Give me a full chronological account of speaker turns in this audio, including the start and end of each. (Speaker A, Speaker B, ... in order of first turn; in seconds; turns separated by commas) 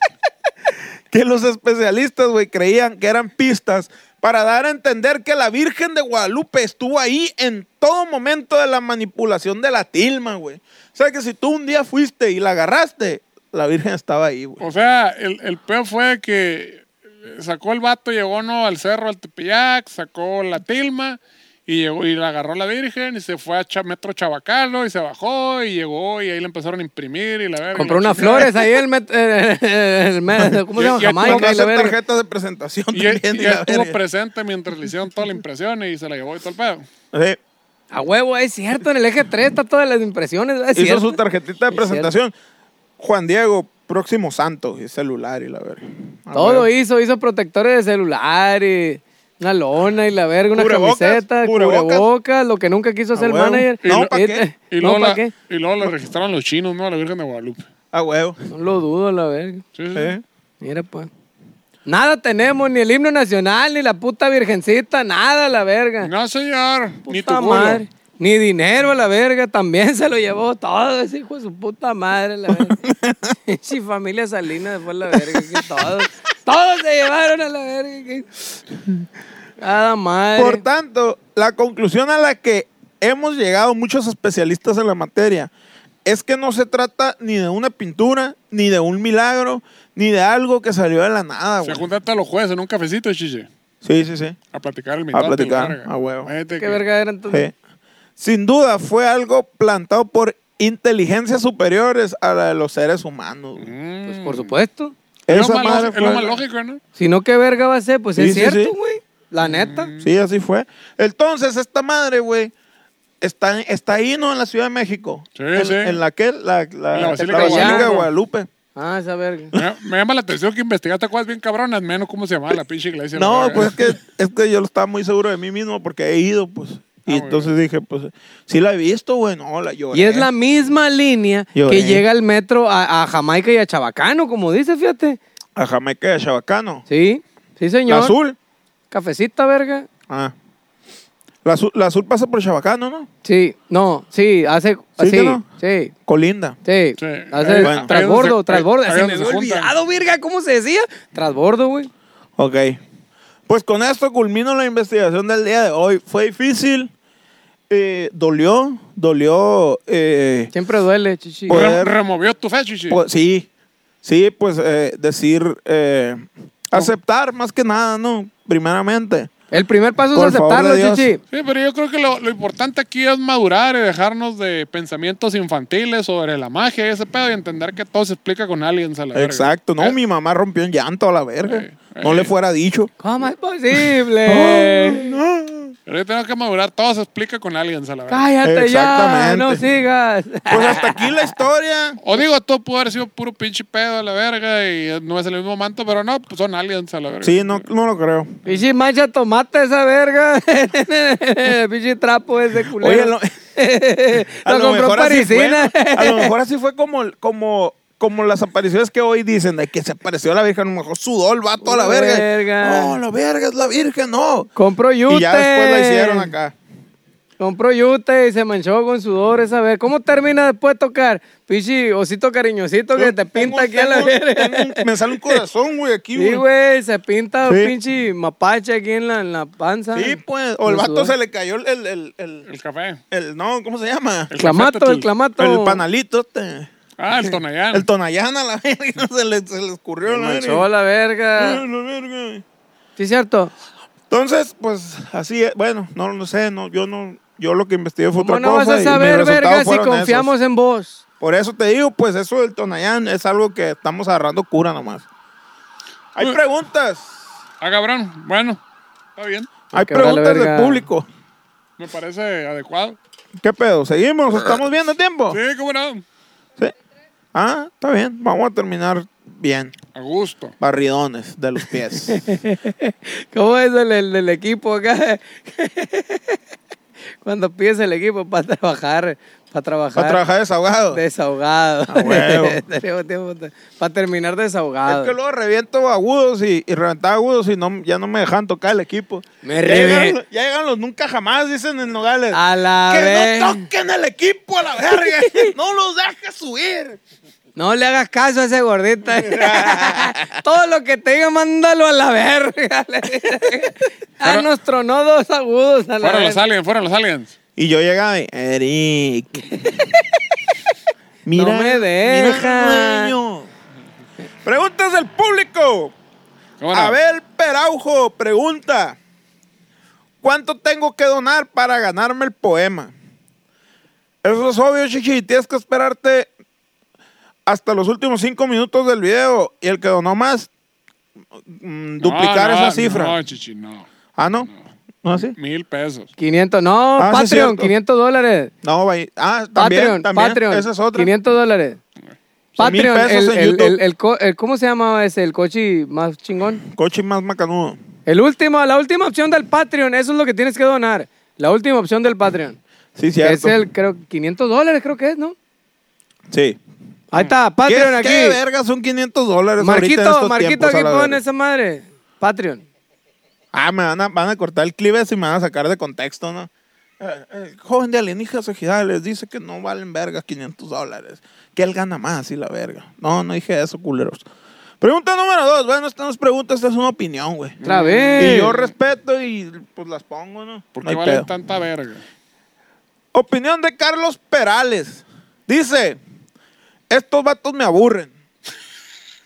Speaker A: 1.1-14.6, Speaker B: 14.6-28.6, Speaker C: 27.7-31.9, Speaker B: 30.7-31.5, Speaker A: 31.2-34.0, Speaker B: 32.9-36.8, Speaker A: 37.1-37.4, Speaker C: 37.9-41.2, Speaker A: 40.7-42.3, Speaker C: 41.7-42.1, Speaker A: 43.0-46.7, Speaker C: 46.3-55.3, Speaker A: 50.5-52.1, Speaker A: 53.1-54.5, Speaker B: 53.8-54.1, Speaker B: 54.7-57.6, Speaker A: 57.9-58.4, Speaker C: 58.5-59.6, Speaker B: 59.7-60.1, Speaker A: 59.9-60.2, Speaker C: 60.6-61.1, Speaker C: 61.9-66.1, Speaker B: 66.0-67.8, Speaker C: 67.1-72.8, Speaker A: 72.5-73.3, Speaker C: 73.5-78.3, Speaker A: 75.1-75.9, Speaker C: 79.6-80.6, Speaker A: 80.3-85.5, Speaker A: 86.0-91.8, Speaker B: 91.6-93.5, Speaker A: 93.8-94.4, Speaker B: 94.5-96.8, Speaker A: 95.1-96.3, Speaker C: 96.6-97.5, Speaker A: 98.2-103.7, Speaker B: 103.6-104.5, Speaker C: 104.0-104.9, Speaker A: 105.3-106.4, Speaker B: 105.3-106.8, Speaker C: 107.0-109.9, Speaker A: 108.2-108.7, Speaker B: 109.4-110.1, Speaker A: 110.0-112.5, Speaker A: 113.2-118.5, Speaker B: 115.3-116.0, Speaker B: 116.9-118.1, Speaker C: 117.2-117.9, Speaker C: 118.8-119.6, Speaker B: 119.5-123.9, Speaker A: 123.1-130.3, Speaker B: 127.1-127.5, Speaker C: 129.9-135.2, Speaker A: 131.5-132.0, Speaker A: 135.6-136.8, Speaker C: 136.9-138.2, Speaker A: 137.9-138.3, Speaker C: 138.9-139.9, Speaker A: 140.1-140.3, Speaker A: 141.4-143.1, Speaker C: 143.2-145.9, Speaker A: 145.0-145.4, Speaker A: 146.1-146.6, Speaker C: 146.6-151.9, Speaker B: 147.0-149.7, Speaker A: 147.6-147.9, Speaker A: 152.4-152.8, Speaker A: 153.5-156.9, Speaker A: 157.7-160.5, Speaker C: 160.5-161.7, Speaker A: 161.5-161.9, Speaker B: 161.5-163.0, Speaker A: 162.9-163.5, Speaker A: 164.0-169.3, Speaker C: 169.5-171.2, Speaker A: 170.1-171.1, Speaker B: 171.3-179.9, Speaker A: 179.1-182.9, Speaker B: 181.4-182.3, Speaker C: 183.0-185.1, Speaker A: 184.3-185.7, Speaker B: 185.9-188.3, Speaker C: 188.1-191.2, Speaker A: 188.4-189.6, Speaker A: 190.5-192.0, Speaker B: 192.0-197.6, Speaker A: 197.2-198.3, Speaker C: 198.4-206.3, Speaker A: 202.8-203.3, Speaker A: 204.4-214.5, Speaker C: 211.6-213.0, Speaker C: 214.6-216.3, Speaker A: 215.1-216.5, Speaker C: 217.4-225.4, Speaker A: 222.9-226.4, Speaker C: 226.2-231.1, Speaker A: 227.4-227.7, Speaker A: 229.9-232.4, Speaker B: 232.4-233.0, Speaker A: 233.1-234.3, Speaker B: 234.3-235.1, Speaker C: 234.4-235.8, Speaker A: 235.4-236.7, Speaker B: 237.0-237.9, Speaker A: 237.7-240.7, Speaker C: 240.1-241.6, Speaker A: 241.4-242.4, Speaker C: 243.0-243.5, Speaker A: 244.1-250.3, Speaker C: 248.1-251.0, Speaker A: 251.2-255.0, Speaker A: 256.1-257.2, Speaker B: 257.6-258.6, Speaker B: 259.1-259.5, Speaker A: 259.7-261.1, Speaker C: 259.7-260.8, Speaker B: 261.8-263.0, Speaker A: 263.4-265.4, Speaker B: 265.3-266.0, Speaker A: 267.3-269.7, Speaker B: 269.9-270.5, Speaker A: 270.6-272.2, Speaker C: 272.1-276.4, Speaker C: 277.2-280.2, Speaker A: 279.9-281.0, Speaker C: 280.9-285.1, Speaker A: 281.9-282.6, Speaker A: 284.9-297.0, Speaker C: 289.4-290.2, Speaker C: 292.3-293.6, Speaker C: 297.6-306.4, Speaker A: 299.2-300.4, Speaker B: 304.2-304.5, Speaker B: 306.0-307.3, Speaker A: 307.6-309.9, Speaker C: 309.5-310.0, Speaker A: 311.2-313.5, Speaker C: 311.3-313.1, Speaker A: 314.4-315.9, Speaker B: 316.6-317.0, Speaker A: 316.7-319.0, Speaker A: 320.2-322.9, Speaker A: 324.2-326.3, Speaker A: 327.4-330.5, Speaker A: 331.4-333.1, Speaker B: 332.0-333.9, Speaker A: 334.2-334.5, Speaker A: 335.0-335.4, Speaker B: 335.4-336.1, Speaker C: 336.2-338.5, Speaker A: 337.0-337.7, Speaker A: 338.6-341.1, Speaker C: 339.6-341.8, Speaker A: 342.6-343.8, Speaker C: 342.6-346.6, Speaker A: 346.6-347.8, Speaker C: 348.1-352.6, Speaker A: 352.9-353.6, Speaker C: 353.2-355.4, Speaker A: 356.3-356.6, Speaker C: 357.1-358.4, Speaker A: 357.7-361.2, Speaker C: 359.6-362.6, Speaker A: 363.5-366.5, Speaker A: 367.0-374.2, Speaker A: 374.8-377.6, Speaker B: 377.6-378.7, Speaker C: 377.6-378.5, Speaker A: 378.2-381.3, Speaker B: 380.8-382.0, Speaker A: 383.1-386.0, Speaker A: 386.9-388.1